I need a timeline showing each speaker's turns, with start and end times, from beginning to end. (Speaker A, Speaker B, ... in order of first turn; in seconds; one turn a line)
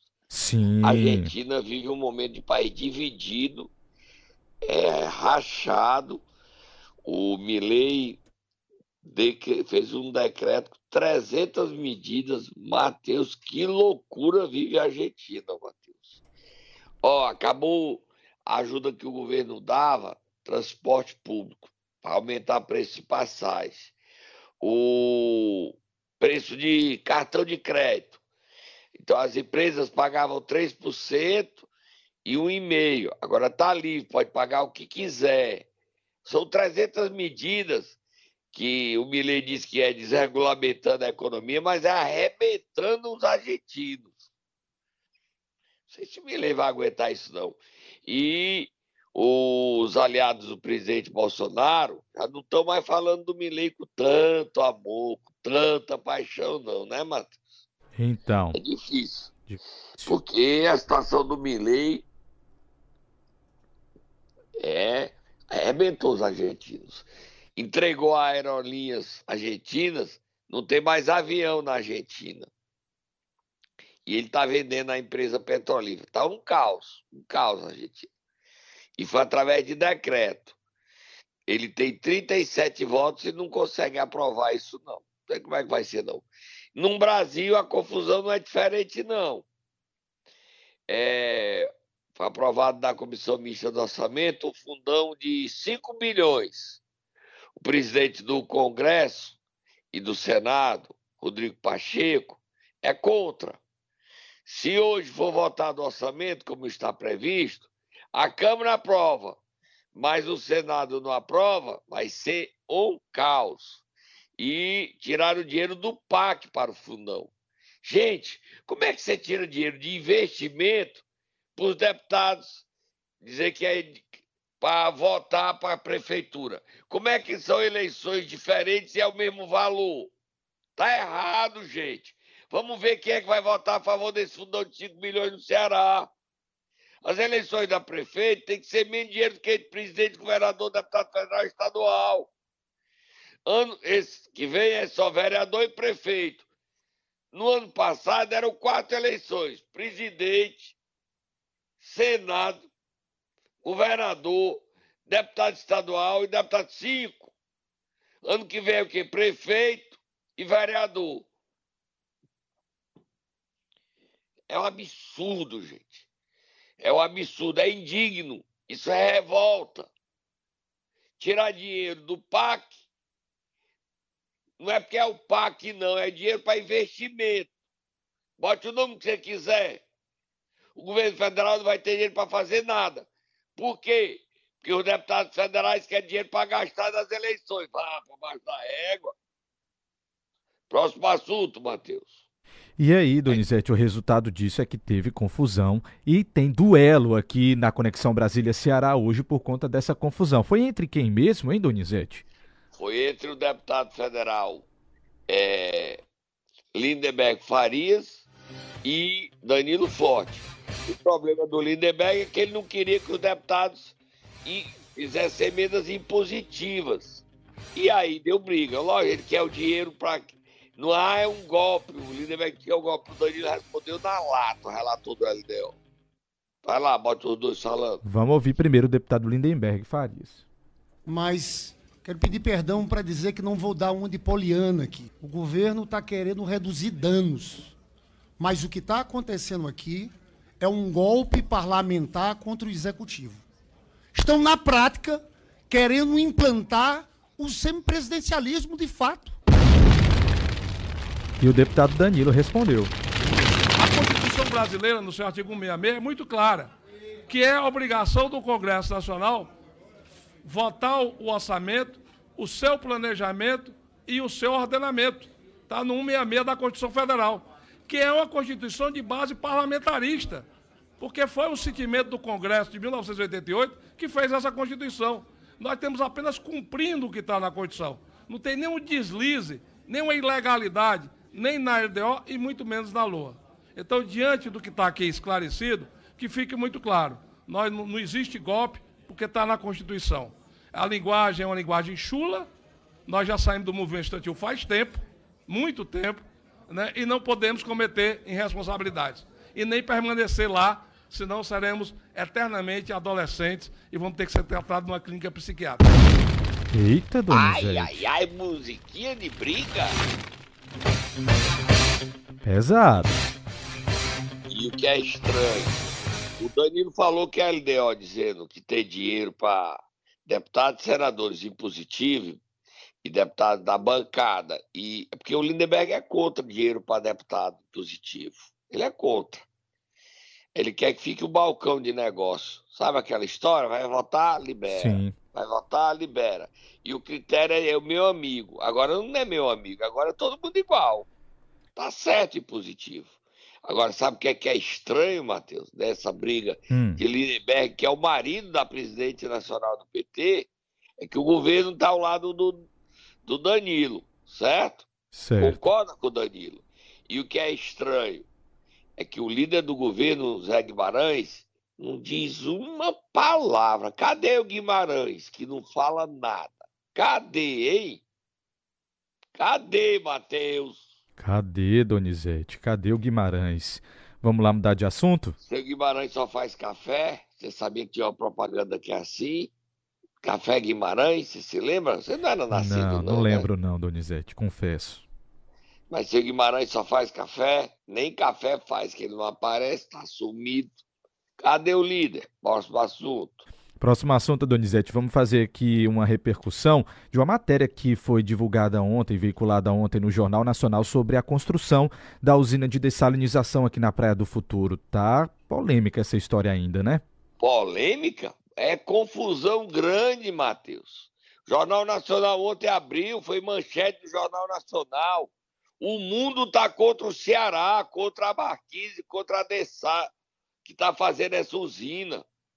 Speaker A: 0.3-1.3
Speaker B: 0.8-3.7
Speaker B: 4.6-6.2
Speaker B: 7.0-8.2
Speaker B: 9.0-16.2
Speaker B: 17.0-23.9
Speaker B: 24.6-28.2
Speaker B: 29.0-31.7
Speaker B: 32.2-35.7
Speaker B: 36.2-38.0
Speaker B: 38.5-44.3
Speaker B: 45.9-57.4
Speaker A: 58.0-58.6
Speaker B: 58.5-59.3
Speaker A: 59.5-60.2
Speaker B: 60.0-62.0
Speaker B: 64.6-72.5
Speaker B: 74.0-78.1
Speaker B: 79.0-80.5
Speaker B: 81.5-89.5
Speaker B: 90.9-96.8
Speaker B: 97.6-99.4
Speaker B: 99.9-103.6
Speaker B: 104.5-109.4
Speaker B: 109.9-113.8
Speaker B: 114.4-117.3
Speaker B: 117.8-121.0
Speaker B: 121.5-122.6
Speaker B: 123.2-124.1
Speaker B: 124.6-130.1
Speaker B: 130.8-136.1
Speaker B: 137.0-142.3
Speaker B: 143.4-146.4
Speaker B: 147.3-150.8
Speaker B: 151.8-152.7
Speaker B: 153.6-157.3
Speaker B: 158.2-161.3
Speaker B: 164.5-166.1
Speaker B: 166.8-169.9
Speaker B: 171.2-172.7
Speaker B: 174.6-177.5
Speaker B: 178.4-179.8
Speaker B: 180.8-189.1
Speaker B: 190.7-192.2
Speaker A: 192.8-202.2
Speaker B: 202.8-204.7
Speaker B: 205.3-206.0
Speaker B: 206.7-208.2
Speaker B: 208.8-213.9
Speaker B: 214.4-217.2
Speaker B: 217.7-225.8
Speaker B: 226.6-228.0
Speaker A: 228.0-230.4
Speaker C: 231.1-237.8
Speaker C: 238.4-243.4
Speaker C: 244.1-249.3
Speaker A: 251.4-252.9
Speaker D: 253.8-256.7
Speaker D: 257.3-259.5
Speaker D: 260.4-270.4
Speaker D: 271.0-292.5
Speaker D: 293.1-305.9
Speaker A: 306.7-308.0
Speaker B: 307.3-310.0
Speaker A: 312.4-313.1
Speaker B: 314.5-315.8
Speaker B: 316.4-322.4
Speaker B: 323.0-329.4
Speaker B: 330.5-341.1
Speaker A: 334.7-335.1
Speaker B: 341.8-343.1
Speaker B: 343.6-350.5
Speaker A: 346.7-347.0
Speaker B: 351.0-352.6
Speaker B: 353.2-354.9
Speaker A: 355.1-355.6
Speaker B: 355.4-358.2
Speaker B: 359.0-368.0
Speaker B: 369.4-370.8
Speaker A: 371.2-375.4
Speaker B: 375.4-379.5
Speaker B: 380.2-383.4
Speaker A: 382.5-385.0
Speaker B: 385.9-390.8
Speaker B: 391.4-393.4
Speaker A: 393.8-407.0
Speaker B: 407.4-420.1
Speaker B: 420.6-422.2